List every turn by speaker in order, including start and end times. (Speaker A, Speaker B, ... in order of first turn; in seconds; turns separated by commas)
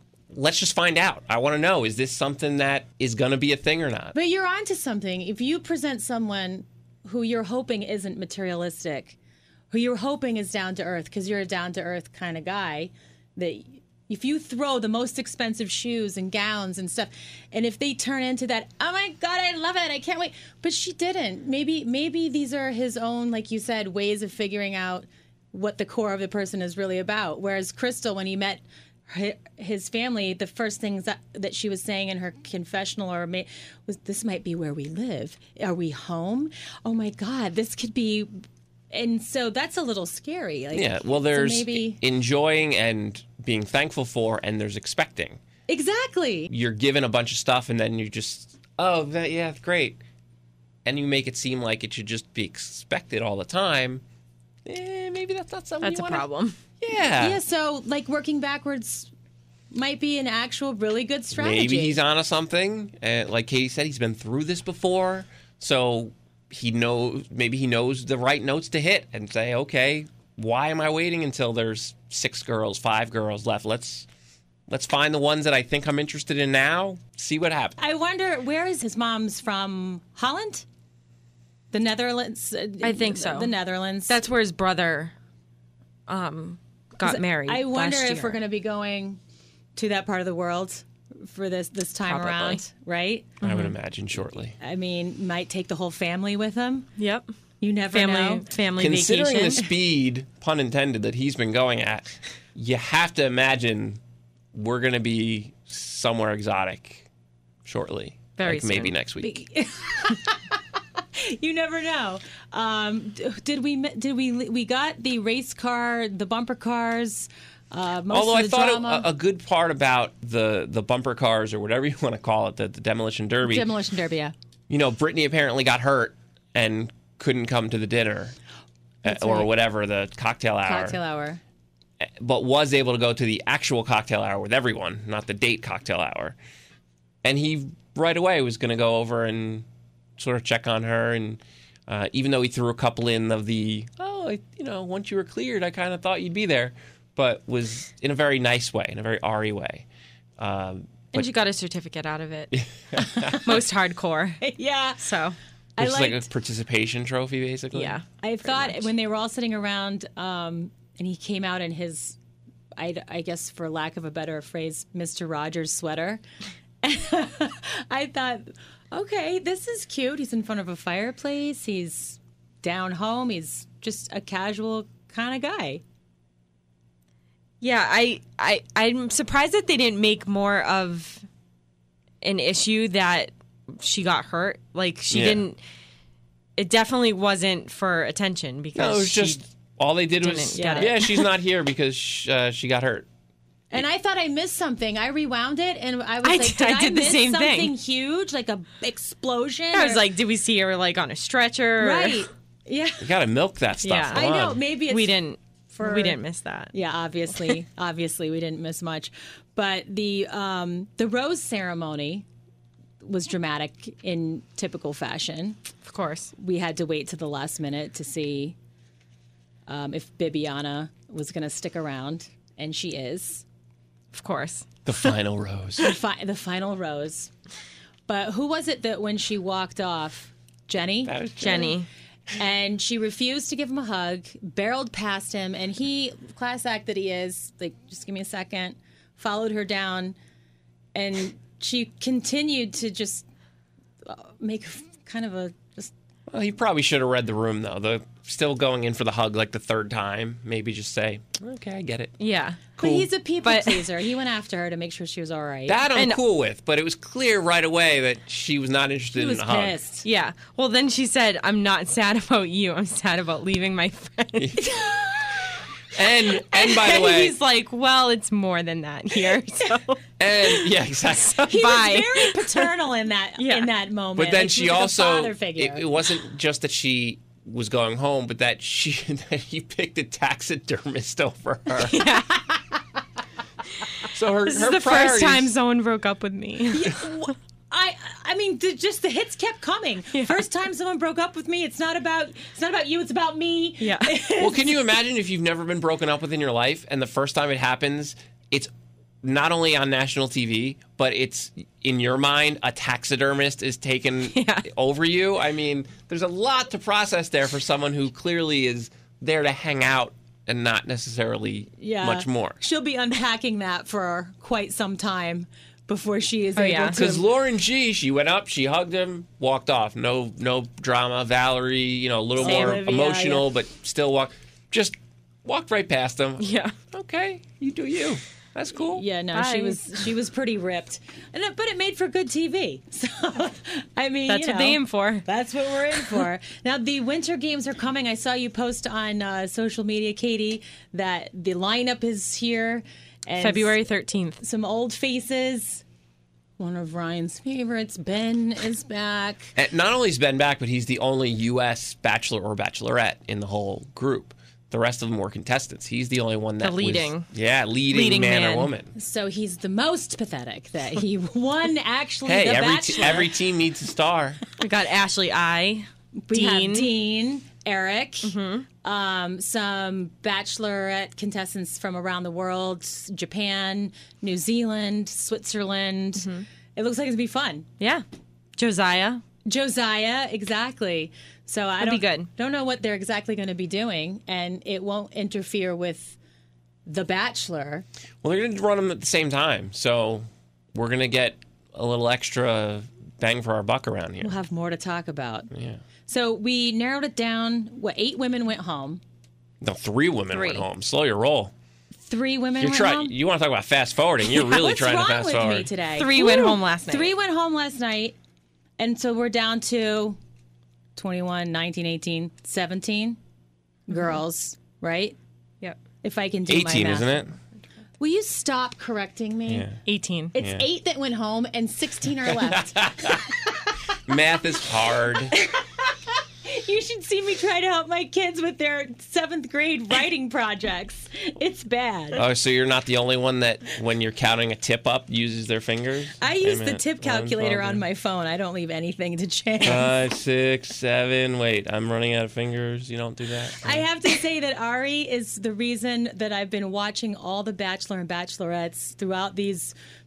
Speaker A: 0.3-4.1, Speaker B: 4.1-9.2, Speaker B: 9.7-38.3, Speaker B: 38.9-42.0, Speaker A: 40.7-45.4, Speaker B: 45.7-46.5, Speaker A: 46.5-50.0, Speaker A: 50.8-54.0, Speaker A: 54.6-56.2, Speaker C: 55.8-56.6, Speaker A: 56.8-57.4, Speaker B: 57.2-59.1, Speaker B: 59.7-62.0, Speaker A: 61.3-74.1, Speaker A: 74.7-77.8, Speaker B: 77.8-80.7, Speaker B: 81.7-84.2, Speaker C: 82.8-83.5, Speaker C: 84.1-85.1, Speaker C: 86.1-88.4, Speaker B: 87.0-89.2, Speaker B: 89.8-93.4, Speaker C: 92.0-92.6, Speaker C: 93.4-93.7, Speaker A: 93.4-94.5, Speaker B: 94.6-96.9, Speaker C: 97.0-97.3, Speaker B: 97.6-98.5, Speaker C: 97.9-99.6, Speaker A: 98.8-104.0, Speaker A: 104.5-107.1, Speaker A: 107.6-109.4, Speaker C: 108.4-108.9, Speaker B: 109.2-110.6, Speaker B: 111.1-119.1, Speaker A: 118.1-123.7, Speaker B: 123.4-124.3, Speaker A: 124.7-128.3, Speaker A: 129.0-131.0, Speaker B: 129.0-129.5, Speaker B: 130.7-131.4, Speaker A: 132.0-136.3, Speaker A: 137.2-139.7, Speaker A: 140.2-149.8, Speaker A: 150.4-151.3, Speaker C: 151.1-152.5, Speaker A: 152.5-153.6, Speaker C: 153.4-154.4, Speaker B: 154.4-155.0, Speaker C: 155.0-155.3, Speaker B: 155.8-156.3, Speaker A: 155.8-157.9, Speaker C: 157.7-158.8, Speaker B: 158.2-162.2, Speaker B: 162.8-166.2, Speaker B: 166.8-175.8, Speaker C: 177.6-181.2, Speaker C: 182.2-185.6, Speaker A: 185.1-185.4, Speaker C: 186.6-189.4, Speaker A: 188.8-193.1, Speaker C: 190.2-191.3, Speaker B: 190.5-190.9, Speaker B: 193.7-200.0, Speaker C: 196.2-197.7, Speaker C: 199.7-202.2, Speaker B: 201.8-203.1, Speaker A: 203.0-204.6, Speaker C: 203.8-204.2, Speaker B: 204.1-205.2, Speaker C: 204.9-206.7, Speaker B: 205.7-206.2, Speaker B: 206.7-212.2, Speaker B: 213.0-215.6, Speaker C: 215.8-216.3, Speaker B: 216.3-218.6, Speaker B: 219.7-223.4, Speaker C: 224.1-225.1, Speaker A: 224.8-225.9, Speaker B: 225.8-227.3, Speaker B: 228.1-231.7, Speaker A: 231.0-231.8, Speaker C: 231.4-231.9, Speaker B: 232.3-240.2, Speaker B: 240.9-243.2, Speaker B: 244.0-245.9, Speaker A: 246.3-252.2, Speaker C: 252.2-252.6, Speaker A: 252.8-253.1, Speaker B: 252.8-255.8, Speaker C: 253.4-253.8, Speaker A: 255.7-259.8, Speaker C: 255.9-256.2, Speaker B: 259.1-260.1, Speaker C: 260.0-264.6, Speaker A: 264.4-265.4, Speaker B: 264.8-265.1, Speaker A: 265.9-267.3, Speaker C: 266.5-272.7, Speaker A: 270.2-271.6, Speaker B: 271.5-275.9, Speaker C: 273.4-273.7, Speaker A: 274.1-282.1, Speaker C: 281.8-282.3, Speaker B: 282.3-282.8, Speaker A: 284.0-285.5, Speaker C: 284.4-287.0, Speaker B: 286.7-294.8, Speaker C: 290.1-290.4, Speaker C: 293.8-294.1, Speaker A: 294.4-298.7, Speaker A: 299.2-312.6, Speaker C: 304.3-304.6, Speaker B: 311.8-317.2, Speaker C: 316.5-317.0, Speaker A: 316.9-324.9, Speaker B: 322.4-323.5, Speaker C: 322.4-322.8, Speaker A: 325.4-329.0, Speaker C: 326.4-326.7, Speaker B: 328.9-343.7, Speaker C: 329.3-329.8, Speaker C: 334.3-335.2, Speaker C: 343.4-344.4, Speaker B: 344.4-345.8, Speaker B: 346.6-349.5, Speaker A: 349.6-358.9, Speaker C: 356.6-357.3, Speaker C: 357.9-358.7, Speaker B: 358.9-363.4, Speaker A: 362.2-364.4, Speaker C: 364.6-366.9, Speaker B: 366.2-377.7, Speaker C: 368.2-368.7, Speaker C: 376.2-376.4, Speaker C: 378.6-379.2, Speaker B: 379.4-386.2, Speaker C: 381.8-382.3, Speaker B: 386.9-387.8, Speaker A: 388.2-394.4, Speaker B: 394.2-395.5, Speaker A: 395.5-395.8, Speaker B: 396.1-399.0, Speaker A: 399.6-401.5, Speaker B: 400.3-400.6, Speaker B: 402.0-403.1, Speaker A: 402.6-405.7, Speaker B: 404.3-408.1, Speaker C: 405.9-407.1, Speaker B: 408.8-410.2, Speaker B: 410.9-413.2, Speaker B: 413.9-415.2, Speaker B: 416.0-417.2, Speaker A: 416.5-417.3, Speaker B: 418.0-419.7, Speaker A: 419.5-419.8, Speaker C: 419.8-420.3, Speaker B: 420.3-423.8, Speaker A: 420.4-420.6, Speaker A: 422.3-423.3, Speaker A: 424.0-425.4, Speaker B: 425.3-432.2, Speaker A: 432.1-437.8, Speaker B: 436.2-439.9, Speaker A: 439.6-443.8, Speaker B: 443.6-449.7